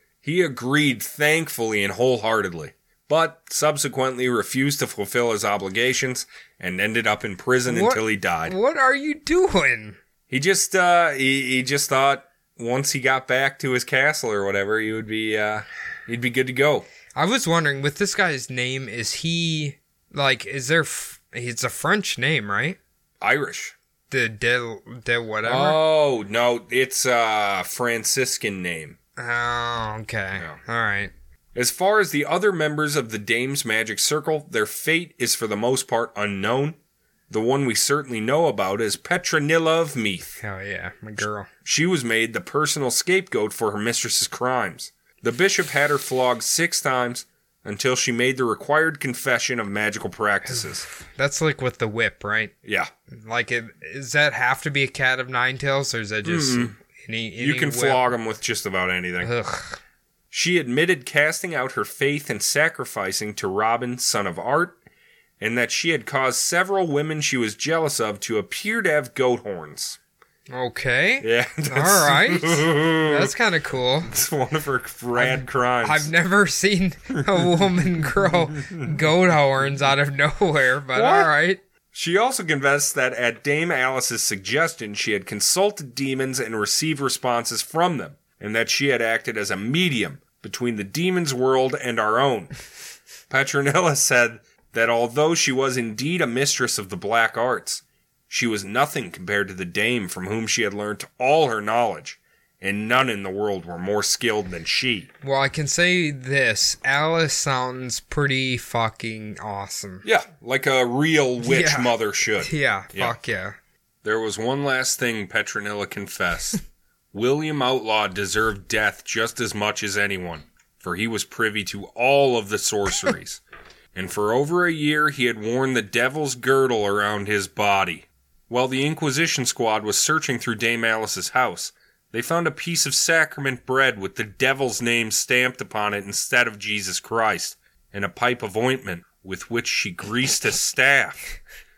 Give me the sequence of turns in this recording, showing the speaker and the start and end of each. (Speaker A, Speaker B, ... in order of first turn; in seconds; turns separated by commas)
Speaker A: 0.2-8.6, Speaker B: 7.7-10.0, Speaker A: 10.3-16.9, Speaker B: 17.2-22.8, Speaker A: 23.2-23.8, Speaker B: 24.1-25.8, Speaker A: 25.5-29.0, Speaker B: 29.2-31.1, Speaker A: 31.6-36.8, Speaker A: 37.3-40.4, Speaker B: 40.4-41.5, Speaker A: 41.6-50.9, Speaker B: 50.5-52.5, Speaker B: 53.1-58.1, Speaker A: 56.2-56.8, Speaker A: 57.4-59.3, Speaker B: 59.2-59.8, Speaker A: 60.3-64.8, Speaker A: 65.4-70.0, Speaker B: 70.5-74.1, Speaker A: 71.2-73.3, Speaker A: 74.1-76.1, Speaker B: 75.2-81.6, Speaker A: 77.2-78.9, Speaker A: 81.0-81.3, Speaker A: 81.9-92.5, Speaker A: 93.3-105.1, Speaker B: 105.2-110.0, Speaker A: 110.0-113.2, Speaker B: 111.4-113.6, Speaker A: 114.0-116.6, Speaker A: 117.1-123.4, Speaker A: 123.9-141.2